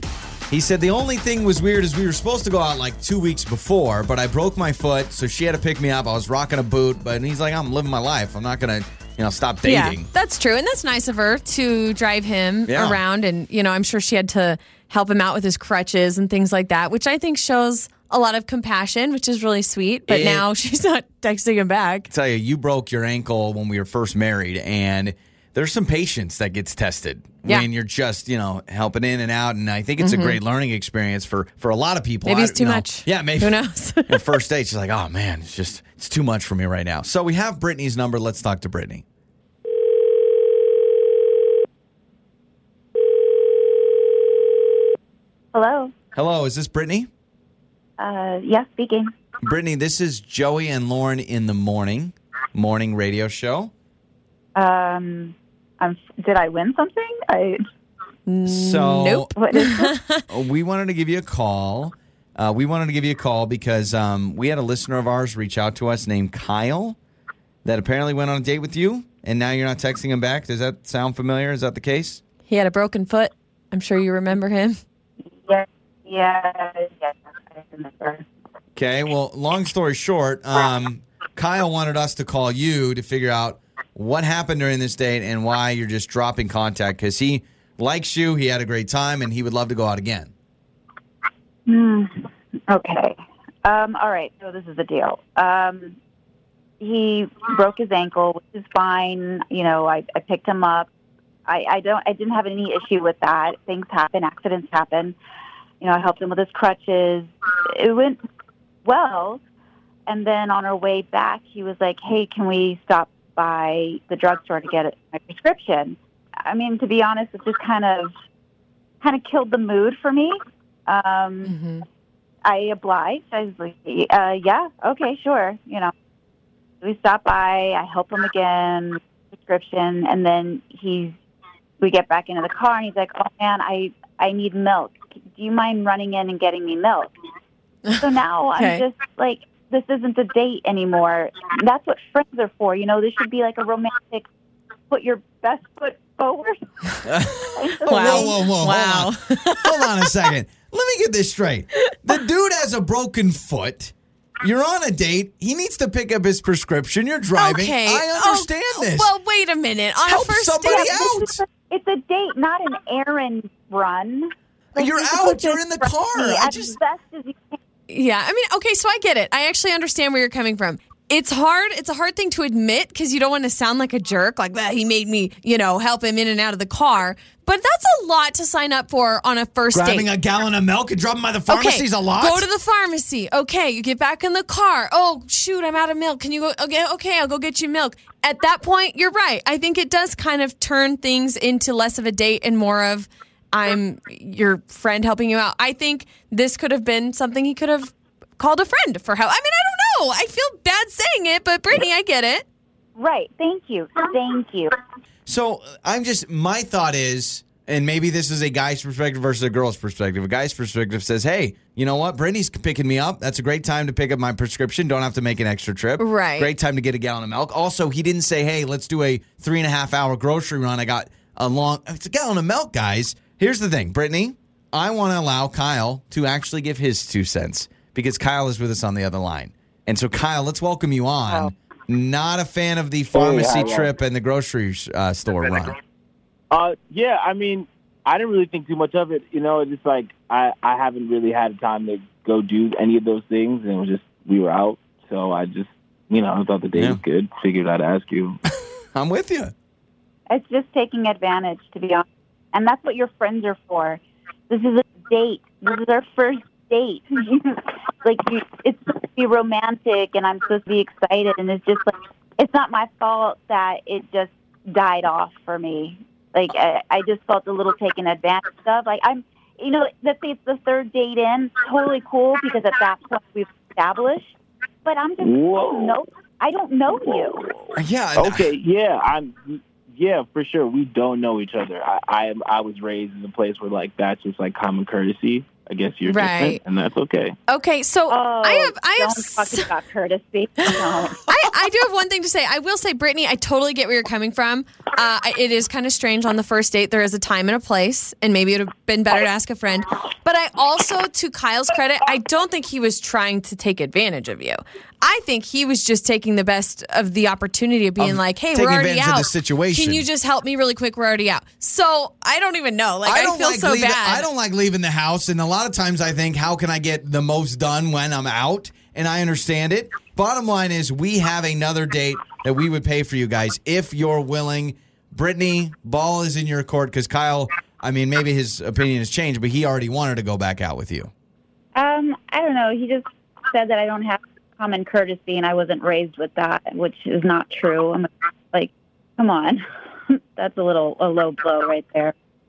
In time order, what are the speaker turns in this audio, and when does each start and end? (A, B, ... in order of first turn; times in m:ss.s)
0:00.5-0:10.1 A
0:09.6-0:22.1 B
0:12.7-0:13.0 A
0:20.1-0:20.4 A
0:22.1-0:39.0 A
0:30.0-0:30.4 B
0:32.3-0:34.4 B
0:45.5-0:45.9 C
0:46.2-0:47.1 A
0:48.0-0:49.1 C
0:49.4-0:53.7 A
0:54.6-0:57.6 C
0:58.3-1:00.3 B
0:58.4-0:59.3 A
0:59.4-0:59.9 C
1:00.3-1:07.0 A
1:07.6-1:12.2 A
1:12.5-1:14.8 B
1:15.4-1:18.3 C
1:18.8-1:30.3 A
1:31.7-1:36.0 C
1:36.8-1:40.9 C
1:41.5-1:45.2 C
1:45.8-1:48.2 C
1:48.8-1:49.4 C
1:50.1-1:58.1 C
1:59.0-2:01.6 C
2:01.4-2:01.8 B
2:02.5-2:05.9 C
2:06.8-2:11.2 C
2:11.8-2:17.1 C
2:17.9-2:18.8 B
2:18.0-2:24.3 C
2:24.9-2:27.0 C
2:27.0-2:39.1 A
2:27.5-2:28.4 C
2:27.8-2:30.0 B
2:37.4-2:41.1 B
2:40.1-2:41.4 A
2:40.6-2:47.6 C
2:44.8-2:46.8 A
2:47.9-3:00.1 B
2:59.7-3:02.4 A
3:01.5-3:22.4 B
3:23.0-3:24.8 C
3:25.3-3:55.8 A
3:36.0-3:36.5 B
3:53.1-3:53.9 D
3:56.5-4:08.4 D
4:08.9-4:09.5 A
4:10.3-4:34.3 C
4:34.8-4:37.6 C
4:35.2-4:36.0 D
4:37.0-4:47.4 D
4:37.8-4:38.5 A
4:46.0-4:46.6 B
4:47.5-4:49.7 B
4:48.1-4:51.3 C
4:50.6-5:14.3 B
5:08.0-5:10.0 A
5:13.1-5:31.1 A
5:31.8-5:39.6 C
5:40.4-5:42.1 C